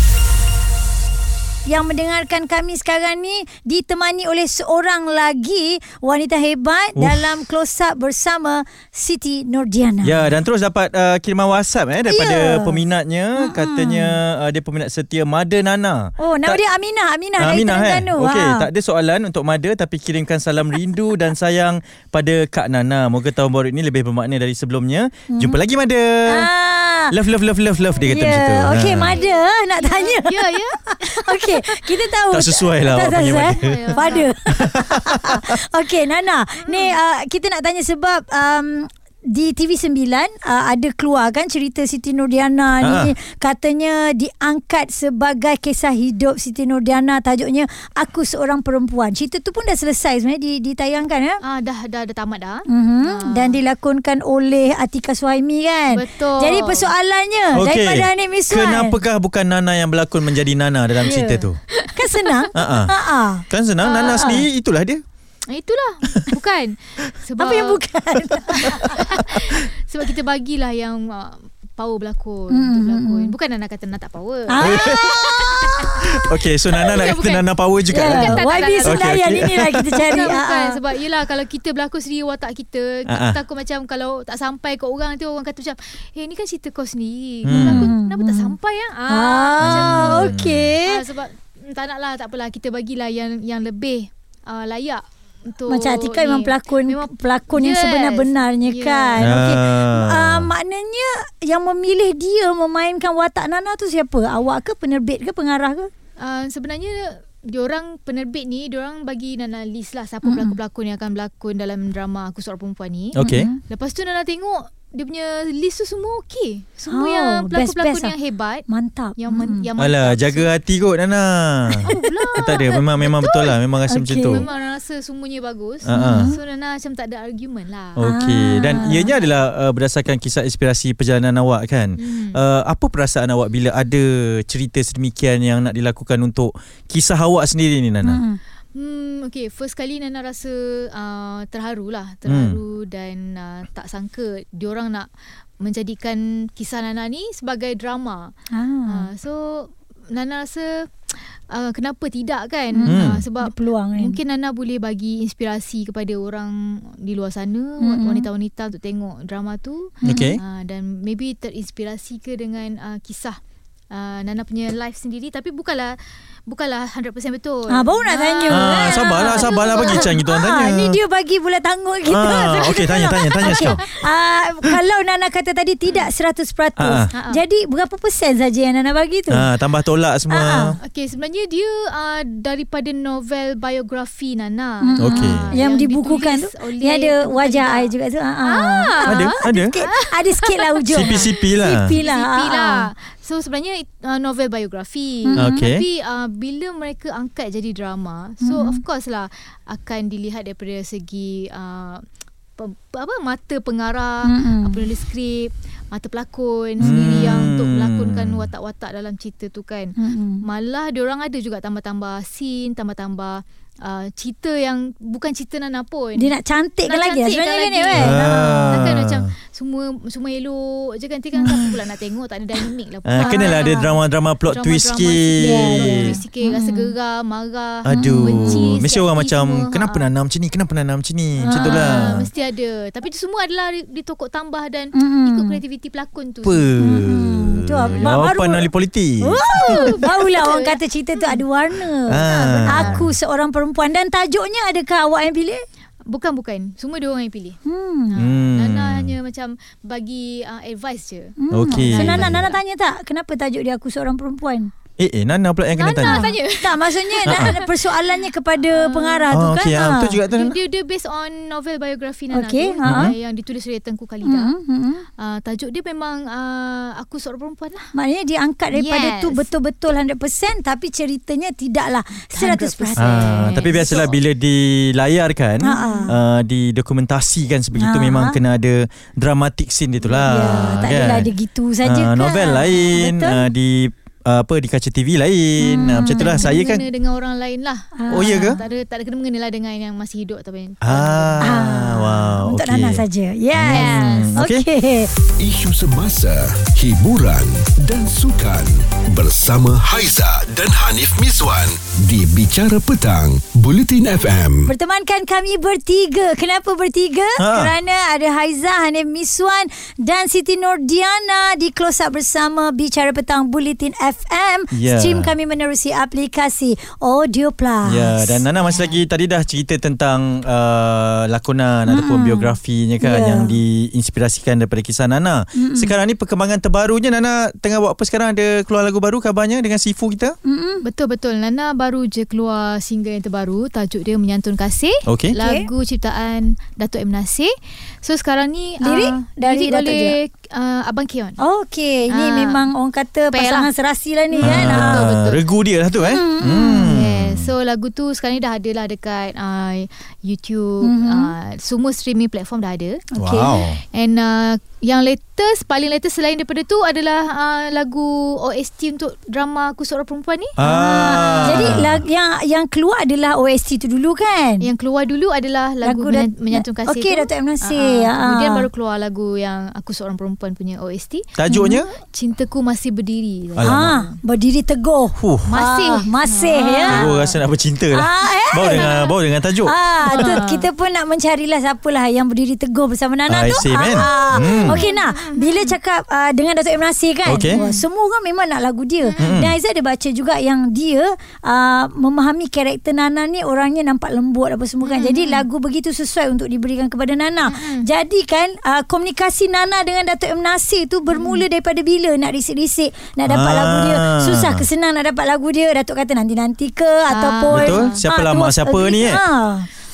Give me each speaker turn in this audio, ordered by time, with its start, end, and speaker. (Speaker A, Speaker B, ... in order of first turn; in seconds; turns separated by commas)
Speaker A: 1.7-10.3, Speaker B: 7.0-7.2, Speaker B: 10.0-16.6, Speaker A: 12.1-12.8, Speaker A: 13.4-14.2, Speaker A: 16.2-18.7, Speaker B: 17.4-26.5, Speaker A: 25.3-25.6, Speaker A: 26.3-27.2, Speaker B: 27.1-29.2, Speaker A: 28.1-51.4, Speaker C: 29.1-31.9, Speaker B: 32.3-35.5, Speaker C: 33.2-34.3, Speaker C: 36.6-37.0, Speaker B: 42.8-43.1, Speaker C: 51.4-53.6, Speaker A: 52.7-59.0, Speaker C: 55.9-56.9, Speaker B: 57.5-61.6, Speaker A: 61.0-63.5, Speaker C: 61.8-62.5, Speaker B: 62.5-65.0, Speaker C: 63.8-64.5, Speaker A: 64.0-64.4, Speaker C: 65.5-67.8, Speaker A: 67.4-69.3, Speaker C: 68.6-75.9, Speaker A: 72.5-73.3, Speaker A: 74.5-76.0, Speaker B: 74.6-75.3, Speaker B: 76.0-79.8, Speaker C: 76.8-79.3, Speaker A: 77.9-80.8, Speaker C: 79.9-99.3, Speaker B: 83.1-83.4, Speaker B: 87.5-87.9, Speaker A: 87.5-88.5, Speaker A: 89.1-91.0, Speaker B: 89.6-90.7, Speaker A: 95.7-105.9, Speaker B: 99.2-100.5, Speaker C: 106.2-118.7, Speaker A: 110.2-110.5, Speaker B: 113.2-113.5, Speaker A: 113.2-113.6, Speaker A: 116.9-118.1, Speaker A: 118.7-119.7, Speaker C: 119.2-120.5, Speaker B: 119.8-124.5, Speaker C: 121.8-128.0, Speaker A: 121.9-122.6, Speaker A: 123.9-124.5, Speaker B: 125.8-126.3, Speaker A: 125.9-126.4, Speaker B: 128.0-138.2, Speaker A: 128.0-129.1, Speaker C: 132.0-132.4, Speaker A: 138.1-138.4, Speaker C: 138.7-145.1, Speaker B: 142.3-142.6, Speaker C: 145.6-148.3, Speaker A: 148.5-149.1, Speaker C: 148.9-163.4, Speaker A: 152.7-154.2, Speaker B: 152.8-153.2, Speaker A: 157.8-158.3, Speaker B: 160.0-160.4, Speaker A: 160.0-160.3, Speaker C: 163.9-170.2, Speaker A: 167.7-179.4, Speaker B: 168.5-171.0, Speaker B: 172.1-173.8, Speaker C: 173.4-173.8, Speaker B: 176.8-177.1, Speaker C: 177.1-177.4, Speaker B: 179.3-180.8, Speaker A: 180.3-180.8, Speaker C: 180.8-187.9, Speaker A: 184.8-192.9, Speaker B: 185.0-185.6, Speaker C: 188.4-202.1, Speaker B: 189.1-189.8, Speaker B: 190.9-191.9, Speaker A: 195.3-195.6, Speaker B: 195.4-195.8, Speaker A: 198.4-198.8, Speaker C: 202.6-216.3, Speaker A: 204.2-204.8, Speaker B: 206.8-208.5, Speaker A: 210.0-210.4, Speaker A: 216.2-218.8, Speaker C: 216.9-230.0, Speaker B: 217.9-219.3, Speaker A: 221.4-221.8, Speaker B: 223.1-226.2, Speaker A: 223.2-223.8, Speaker A: 225.4-226.9, Speaker B: 227.8-232.3, Speaker A: 227.9-228.7, Speaker A: 231.4-232.2, Speaker C: 231.4-236.7, Speaker A: 234.9-235.6, Speaker B: 236.4-239.9, Speaker A: 236.8-238.7, Speaker A: 239.2-245.6, Speaker C: 239.6-241.4, Speaker B: 242.1-243.1, Speaker C: 242.2-243.0, Speaker C: 246.1-247.6, Speaker A: 247.7-248.2, Speaker C: 248.1-252.6, Speaker B: 248.2-249.1, Speaker A: 251.4-254.7, Speaker B: 251.5-252.4, Speaker B: 255.0-256.3, Speaker C: 255.8-257.7, Speaker A: 256.0-260.1, Speaker B: 257.3-257.5, Speaker C: 258.7-259.3, Speaker B: 259.3-260.6, Speaker C: 260.3-264.5, Speaker A: 262.3-263.1, Speaker B: 262.8-263.1, Speaker A: 264.2-265.0, Speaker C: 265.2-267.9, Speaker A: 267.9-273.9, Speaker C: 268.7-269.5, Speaker C: 272.3-274.1, Speaker B: 273.0-281.3, Speaker A: 275.6-276.2, Speaker A: 277.8-278.4, Speaker A: 280.1-283.5, Speaker B: 281.8-286.9, Speaker A: 285.6-286.5, Speaker C: 286.0-291.5, Speaker A: 288.0-288.6, Speaker B: 288.1-288.6, Speaker B: 290.8-294.6, Speaker A: 291.4-295.1, Speaker C: 293.7-294.3, Speaker D: 295.4-304.7, Speaker A: 304.7-318.5, Speaker B: 307.4-307.7, Speaker B: 314.7-315.3, Speaker B: 317.9-330.4, Speaker A: 321.9-323.5, Speaker A: 325.6-325.9, Speaker A: 330.4-330.9, Speaker C: 330.8-341.4, Speaker B: 335.1-335.4, Speaker A: 335.4-335.7, Speaker A: 338.8-340.2, Speaker A: 341.4-345.1, Speaker C: 342.1-342.7, Speaker C: 343.3-343.7, Speaker C: 344.3-345.4, Speaker B: 344.4-347.5, Speaker A: 346.0-347.0, Speaker C: 346.8-353.1, Speaker A: 350.8-351.3, Speaker A: 353.1-353.6, Speaker B: 353.2-353.8, Speaker C: 353.9-360.6, Speaker B: 360.6-362.0, Speaker A: 360.6-364.7, Speaker C: 361.1-361.8, Speaker C: 364.6-374.2, Speaker A: 365.8-368.7, Speaker B: 371.4-371.9, Speaker A: 371.5-371.8, Speaker B: 373.6-374.0, Speaker A: 373.6-377.1, Speaker B: 375.2-375.6, Speaker C: 375.5-377.3, Speaker B: 376.9-380.4, Speaker A: 377.9-379.1, Speaker C: 378.7-379.1, Speaker A: 379.6-409.7, Speaker C: 380.1-380.7, Speaker B: 383.3-384.8, Speaker C: 383.9-385.8, Speaker B: 387.3-387.6, Speaker C: 387.5-387.8, Speaker C: 389.0-389.4, Speaker B: 389.2-389.5, Speaker C: 394.8-395.5, Speaker C: 397.5-397.9, Speaker C: 401.1-401.4, Speaker B: 403.3-404.6, Speaker C: 407.1-408.0, Speaker B: 407.5-409.2